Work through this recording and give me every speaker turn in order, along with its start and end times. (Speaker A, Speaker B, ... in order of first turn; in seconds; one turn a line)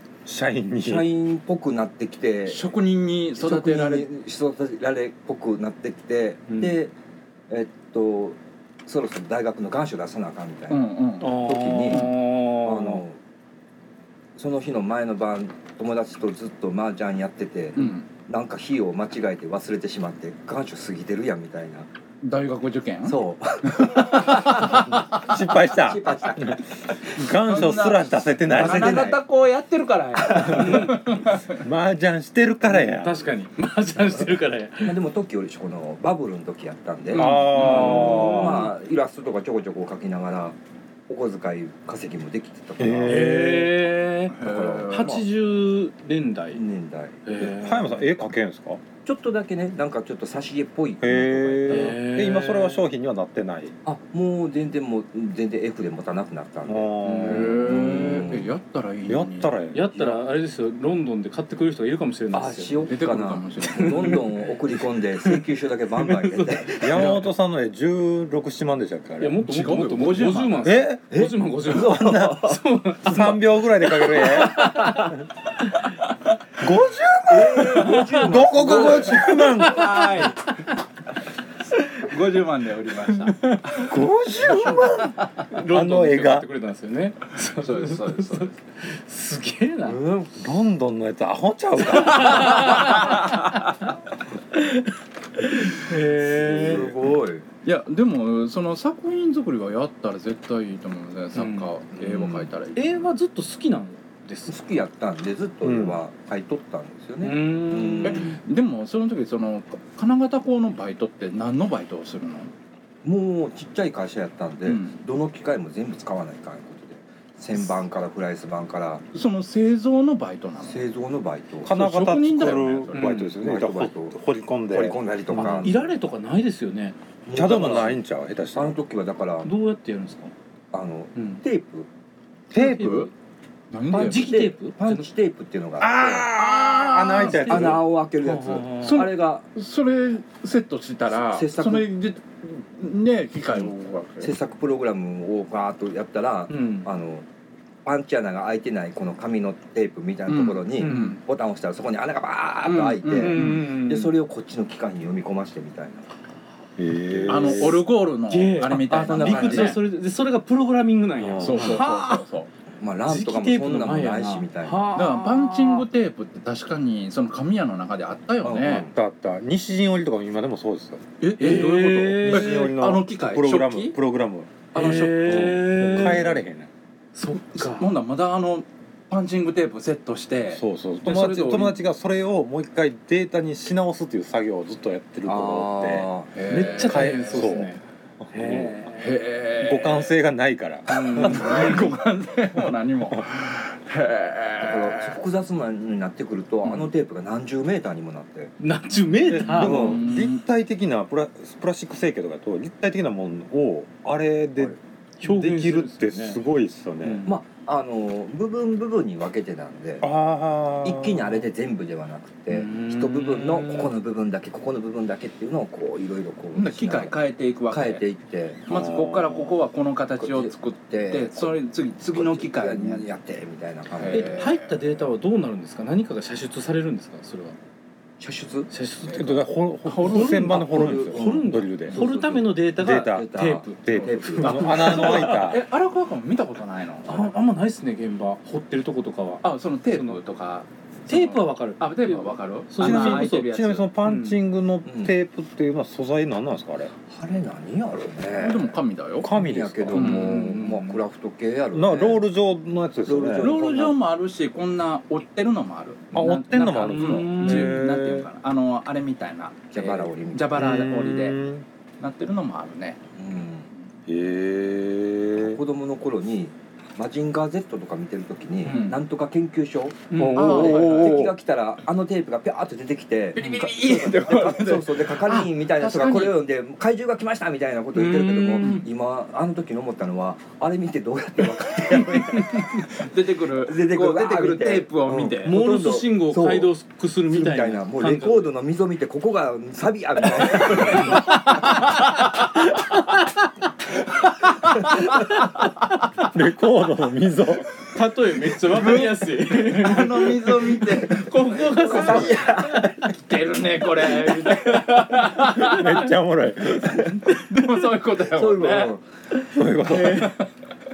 Speaker A: 0.3-1.1
Speaker B: 0.8-2.8
Speaker C: 2.5-4.1
Speaker B: 3.3-6.9
Speaker D: 6.5-6.8
Speaker B: 7.5-13.2
Speaker C: 10.7-11.4
Speaker D: 11.2-13.0
Speaker C: 11.9-12.2
Speaker B: 14.4-21.9
Speaker C: 17.8-18.1
Speaker C: 22.2-23.2
Speaker B: 23.1-26.6
Speaker C: 23.8-24.9
Speaker A: 24.6-26.6
Speaker A: 27.1-29.2
Speaker C: 27.4-31.6
Speaker B: 28.5-29.2
Speaker B: 30.2-30.9
Speaker D: 30.5-31.0
Speaker A: 31.6-33.3
Speaker D: 32.7-35.0
Speaker B: 34.8-40.6
Speaker A: 37.1-38.7
Speaker D: 37.1-38.5
Speaker C: 37.2-38.4
Speaker B: 41.1-43.6
Speaker A: 42.8-43.7
Speaker D: 43.0-44.4
Speaker C: 44.3-45.1
Speaker B: 44.4-45.3
Speaker D: 44.9-46.6
Speaker B: 46.5-47.2
Speaker D: 47.3-48.0
Speaker A: 47.4-48.8
Speaker B: 49.0-52.0
Speaker A: 51.0-53.8
Speaker D: 51.7-52.8
Speaker B: 53.9-58.5
Speaker A: 56.7-58.0
Speaker D: 57.0-57.5
Speaker C: 57.2-59.6
Speaker A: 59.1-59.9
Speaker D: 59.7-62.8
Speaker B: 60.0-60.2
Speaker B: 62.3-67.1
Speaker C: 62.9-64.2
Speaker D: 65.2-65.5
Speaker D: 66.1-67.2
Speaker A: 66.8-69.5
Speaker D: 69.2-75.1
Speaker C: 69.4-70.8
Speaker A: 70.7-71.0
Speaker B: 71.1-72.6
Speaker A: 71.7-75.2
Speaker A: 76.6-80.1
Speaker B: 77.3-79.3
Speaker C: 78.6-80.5
Speaker D: 79.0-80.0
Speaker C: 82.0-83.4
Speaker D: 83.4-83.9
Speaker A: 83.8-86.5
Speaker D: 84.4-90.0
Speaker B: 84.5-84.8
Speaker C: 87.5-88.5
Speaker B: 89.8-90.3
Speaker A: 90.3-93.1
Speaker D: 91.9-93.6
Speaker D: 94.5-96.9
Speaker B: 96.3-97.5
Speaker C: 97.6-102.8
Speaker D: 101.3-101.7
Speaker B: 101.9-102.5
Speaker D: 102.8-104.6
Speaker B: 104.5-108.4
Speaker A: 105.6-106.0
Speaker D: 107.2-108.4
Speaker C: 108.0-112.5
Speaker B: 113.0-119.0
Speaker C: 114.7-115.0
Speaker C: 119.1-120.8
Speaker B: 120.6-121.8
Speaker A: 121.6-125.7
Speaker C: 121.7-123.2
Speaker B: 123.1-124.2
Speaker B: 124.7-125.9
Speaker D: 125.3-127.0
Speaker B: 127.3-128.0
Speaker A: 127.3-128.8
Speaker B: 128.5-129.5
Speaker D: 129.4-130.3
Speaker B: 130.7-131.9
Speaker D: 131.2-131.4
Speaker C: 132.5-133.1
Speaker D: 132.5-133.1
Speaker C: 133.7-134.4
Speaker D: 133.9-135.1
Speaker B: 133.9-136.3
Speaker A: 135.8-137.8
Speaker C: 136.4-137.7
Speaker B: 137.5-139.5
Speaker D: 137.5-139.0
Speaker C: 138.8-144.3
Speaker B: 141.1-141.9
Speaker B: 144.2-147.3
Speaker D: 146.5-146.9
Speaker B: 147.8-156.2
Speaker C: 150.3-151.2
Speaker D: 150.8-151.2
Speaker C: 152.7-153.7
Speaker D: 153.2-154.2
Speaker A: 156.8-157.8
Speaker C: 157.3-159.8
Speaker D: 158.3-162.2
Speaker B: 159.0-159.8
Speaker A: 161.2-161.8
Speaker C: 161.4-162.5
Speaker B: 162.8-164.9
Speaker D: 163.1-165.8
Speaker C: 164.9-168.9
Speaker B: 168.4-168.9
Speaker A: 168.9-174.7
Speaker C: 171.2-174.0
Speaker D: 171.4-172.7
Speaker C: 174.7-176.1
Speaker D: 174.7-176.3
Speaker A: 175.2-176.7
Speaker D: 177.2-177.9
Speaker C: 177.3-181.8
Speaker A: 180.5-186.1
Speaker B: 185.3-186.3
Speaker C: 186.3-187.5
Speaker D: 186.5-187.8
Speaker A: 186.6-188.8
Speaker D: 188.3-189.1
Speaker C: 188.9-190.1
Speaker A: 189.6-191.9
Speaker C: 190.9-195.2
Speaker D: 190.9-191.8
Speaker B: 194.6-198.5
Speaker D: 198.6-199.9
Speaker A: 199.3-207.3
Speaker B: 199.6-200.0
Speaker C: 199.6-200.4
Speaker D: 205.2-206.4
Speaker D: 207.0-207.3
Speaker B: 207.2-210.1
Speaker A: 210.0-211.5
Speaker B: 210.8-218.6
Speaker D: 212.5-214.0
Speaker C: 216.5-218.0
Speaker C: 218.7-223.1
Speaker A: 218.7-219.6
Speaker B: 220.2-221.6
Speaker B: 222.1-224.4
Speaker C: 223.9-225.0
Speaker D: 224.1-227.6
Speaker B: 228.2-228.7
Speaker D: 228.7-233.8
Speaker A: 229.1-232.0
Speaker C: 229.9-230.4
Speaker B: 230.5-235.3
Speaker A: 232.7-235.6
Speaker C: 234.0-237.3
Speaker D: 237.1-240.2
Speaker C: 239.4-243.9
Speaker D: 241.1-244.4
Speaker A: 242.8-246.9
Speaker B: 244.8-245.1
Speaker B: 247.1-252.2
Speaker C: 248.4-249.3
Speaker A: 249.2-250.2
Speaker C: 249.9-250.5
Speaker D: 249.9-251.0
Speaker A: 251.7-253.6
Speaker B: 253.1-254.0
Speaker C: 253.4-261.4
Speaker A: 256.1-258.3
Speaker D: 256.7-257.8
Speaker B: 259.7-260.6
Speaker A: 260.5-261.6
Speaker C: 262.0-263.0
Speaker B: 263.2-263.7
Speaker A: 264.1-265.6
Speaker B: 265.4-283.1
Speaker D: 268.6-268.9
Speaker C: 268.7-269.0
Speaker D: 270.1-271.3
Speaker A: 270.2-271.3
Speaker C: 270.4-271.3
Speaker C: 273.4-276.4
Speaker D: 277.9-278.9
Speaker C: 282.8-285.6
Speaker B: 283.6-286.7
Speaker D: 285.4-288.6
Speaker B: 287.3-291.4
Speaker D: 290.6-291.8
Speaker A: 296.3-297.7
Speaker D: 297.9-303.0
Speaker C: 298.6-302.4
Speaker B: 301.8-303.1
Speaker C: 303.1-305.8
Speaker D: 304.3-306.1
Speaker A: 305.2-307.1
Speaker C: 307.2-308.9
Speaker B: 308.2-309.1
Speaker A: 309.5-310.3
Speaker D: 309.8-310.4
Speaker C: 310.2-310.4